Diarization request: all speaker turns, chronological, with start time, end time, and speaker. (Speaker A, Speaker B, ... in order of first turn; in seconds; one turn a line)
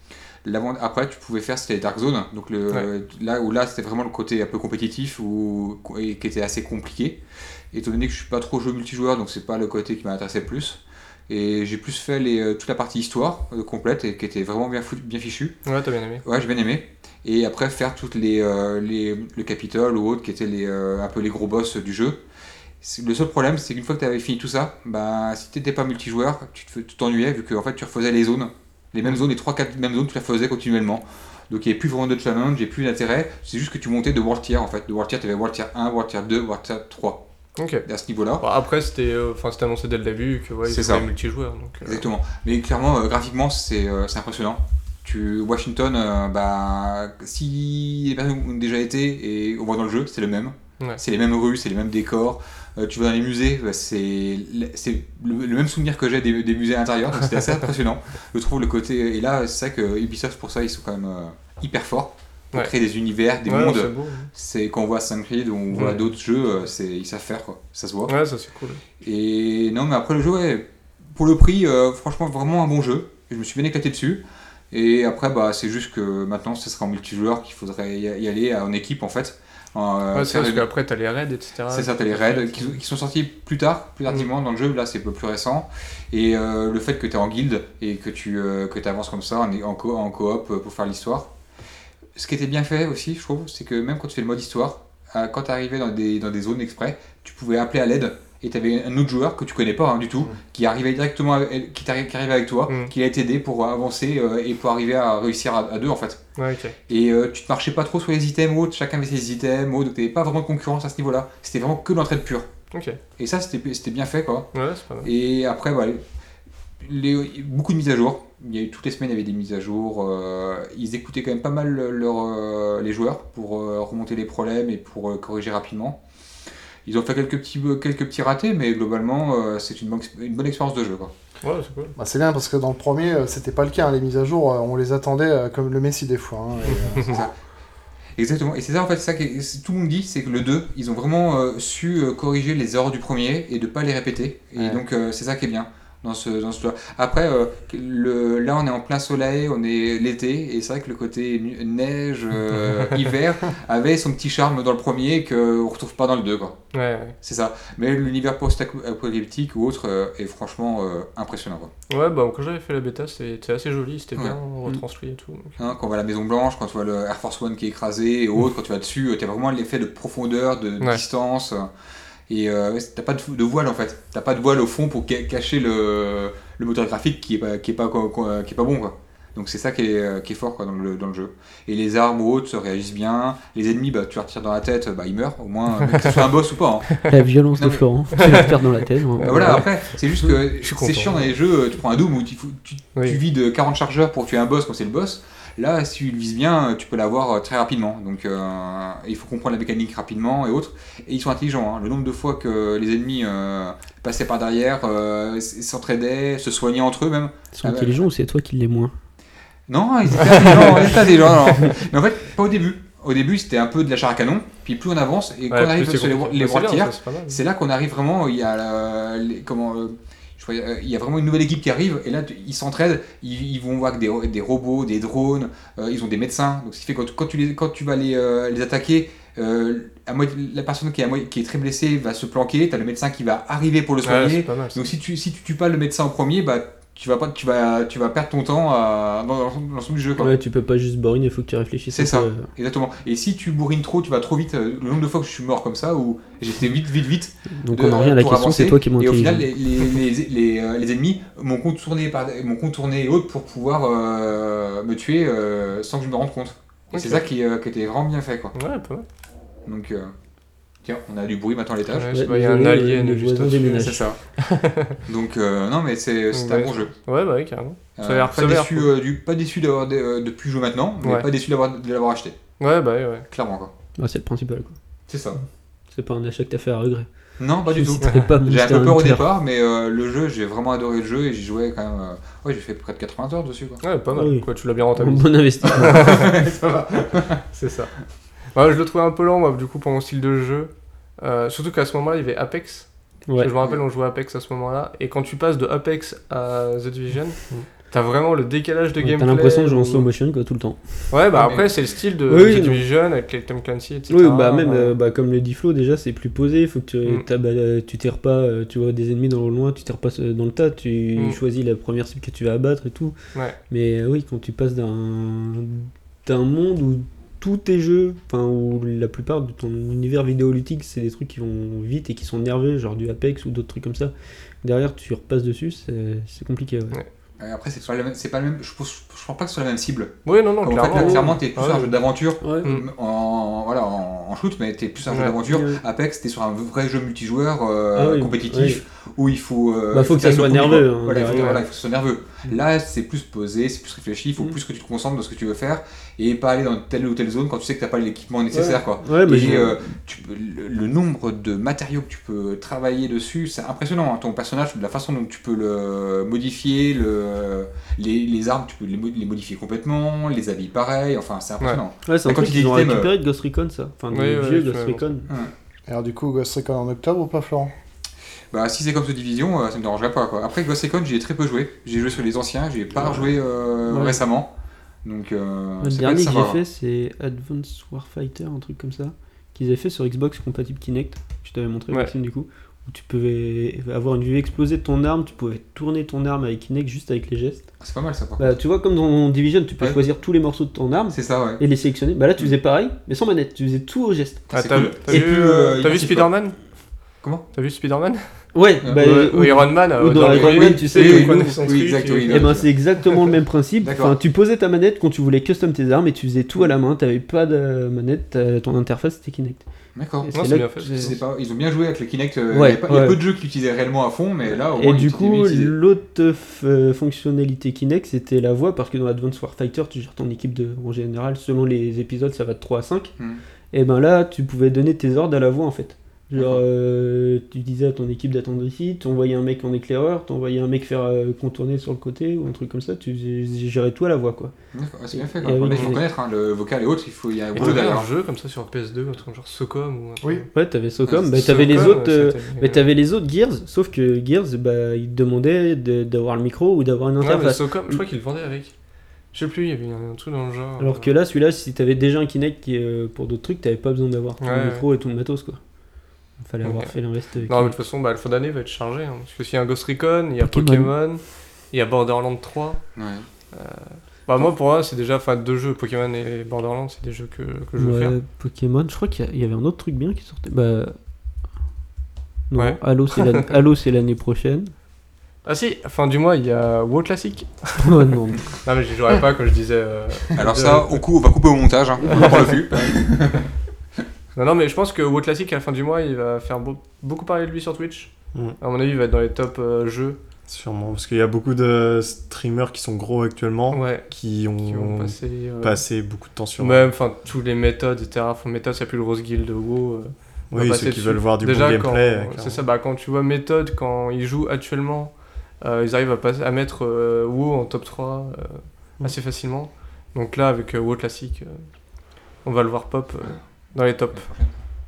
Speaker A: 0.4-7.2
Speaker A: 7.7-15.6
Speaker B: 15.7-16.2
Speaker A: 16.2-22.2
Speaker A: 22.8-37.2
Speaker B: 37.6-37.9
Speaker A: 37.9-38.4
Speaker B: 38.4-42.1
Speaker A: 40.6-41.1
Speaker A: 41.8-68.2
Speaker B: 63.5-64.3
Speaker B: 65.7-66.0
Speaker B: 68.1-68.8
Speaker A: 69.0-80.7
Speaker B: 80.1-82.8
Speaker A: 81.7-91.3
Speaker A: 92.2-106.2
Speaker B: 102.7-102.9
Speaker B: 106.4-106.8
Speaker A: 106.9-112.5
Speaker B: 112.7-113.0
Speaker A: 113.2-114.5
Speaker B: 114.5-115.1
Speaker A: 115.0-116.0
Speaker A: 116.8-126.0
Speaker A: 126.8-131.1
Speaker B: 131.4-131.9
Speaker C: 132.0-137.2
Speaker A: 137.0-137.3
Speaker A: 138.2-156.6
Speaker B: 156.7-157.2
Speaker A: 157.2-161.7
Speaker B: 161.9-165.6
Speaker A: 165.6-171.7
Speaker A: 172.3-188.6
Speaker D: 187.1-189.7
Speaker B: 188.2-188.5
Speaker B: 189.2-189.8
Speaker A: 189.2-208.1
Speaker B: 190.6-191.2
Speaker B: 192.9-193.2
Speaker D: 207.5-208.9
Speaker A: 209.7-240.4
Speaker B: 210.2-211.0
Speaker B: 215.5-217.4
Speaker B: 234.0-234.9
Speaker D: 240.2-242.5
Speaker A: 241.9-258.6
Speaker D: 247.6-249.5
Speaker B: 256.9-257.2
Speaker B: 258.6-259.1
Speaker A: 259.6-260.1
Speaker A: 260.8-262.1
Speaker B: 261.9-265.0
Speaker D: 262.1-264.1
Speaker A: 263.7-264.2
Speaker A: 265.1-266.9
Speaker B: 266.3-268.9
Speaker A: 268.0-272.4
Speaker B: 272.6-273.3
Speaker A: 273.3-273.7
Speaker D: 274.0-274.8
Speaker A: 275.1-275.4
Speaker D: 275.9-277.1
Speaker A: 277.4-283.8
Speaker D: 277.7-279.3
Speaker B: 283.8-286.3
Speaker D: 284.1-286.0
Speaker A: 285.7-287.4
Speaker B: 287.5-287.9
Speaker B: 288.5-300.1
Speaker D: 299.0-301.1
Speaker B: 301.1-304.9
Speaker A: 301.3-301.7
Speaker D: 302.3-302.9
Speaker D: 304.1-313.2
Speaker D: 313.7-324.1
Speaker D: 324.6-327.0
Speaker A: 327.4-363.1
Speaker B: 330.2-331.9
Speaker D: 330.9-331.4
Speaker D: 332.4-332.7
Speaker B: 332.4-332.8
Speaker B: 335.1-335.4
Speaker D: 335.4-335.8
Speaker D: 337.9-338.8
Speaker D: 339.9-341.7
Speaker B: 341.2-341.6
Speaker D: 348.5-349.8
Speaker D: 362.1-365.3
Speaker B: 364.1-365.1
Speaker C: 365.9-367.7
Speaker A: 368.5-374.5
Speaker D: 373.9-374.2
Speaker A: 375.0-376.6
Speaker D: 375.8-387.7
Speaker A: 387.8-388.6
Speaker D: 388.4-394.4
Speaker A: 391.1-391.6
Speaker A: 394.5-396.3
Speaker B: 394.5-396.6
Speaker B: 397.5-402.6
Speaker D: 398.5-401.6
Speaker A: 400.0-402.7
Speaker D: 402.3-409.6
Speaker A: 403.8-404.2
Speaker A: 409.9-415.7
Speaker D: 410.2-411.2
Speaker B: 410.3-411.2
Speaker D: 412.5-413.2
Speaker D: 414.5-423.1
Speaker D: 423.7-434.5
Speaker A: 426.4-426.6
Speaker A: 434.7-438.1
Speaker D: 435.1-436.0
Speaker B: 437.6-440.5
Speaker D: 437.6-437.8
Speaker C: 440.2-440.5
Speaker D: 440.5-448.0
Speaker A: 441.1-441.8
Speaker B: 441.4-442.9
Speaker B: 447.2-448.7
Speaker B: 449.3-451.1
Speaker D: 450.8-455.6
Speaker B: 454.4-454.9
Speaker D: 456.4-457.8
Speaker B: 456.6-462.9
Speaker D: 460.4-460.9
Speaker A: 463.0-463.3
Speaker B: 463.5-468.1
Speaker D: 467.8-471.0
Speaker D: 472.5-474.7
Speaker B: 472.6-473.6
Speaker B: 475.4-481.0
Speaker D: 477.8-478.5
Speaker A: 480.3-483.5
Speaker D: 482.0-482.9
Speaker B: 482.1-482.4
Speaker B: 484.4-490.2
Speaker E: 490.5-496.9
Speaker B: 493.7-495.9
Speaker B: 496.6-511.7
Speaker E: 500.5-502.6
Speaker B: 512.4-514.3
Speaker A: 514.1-514.6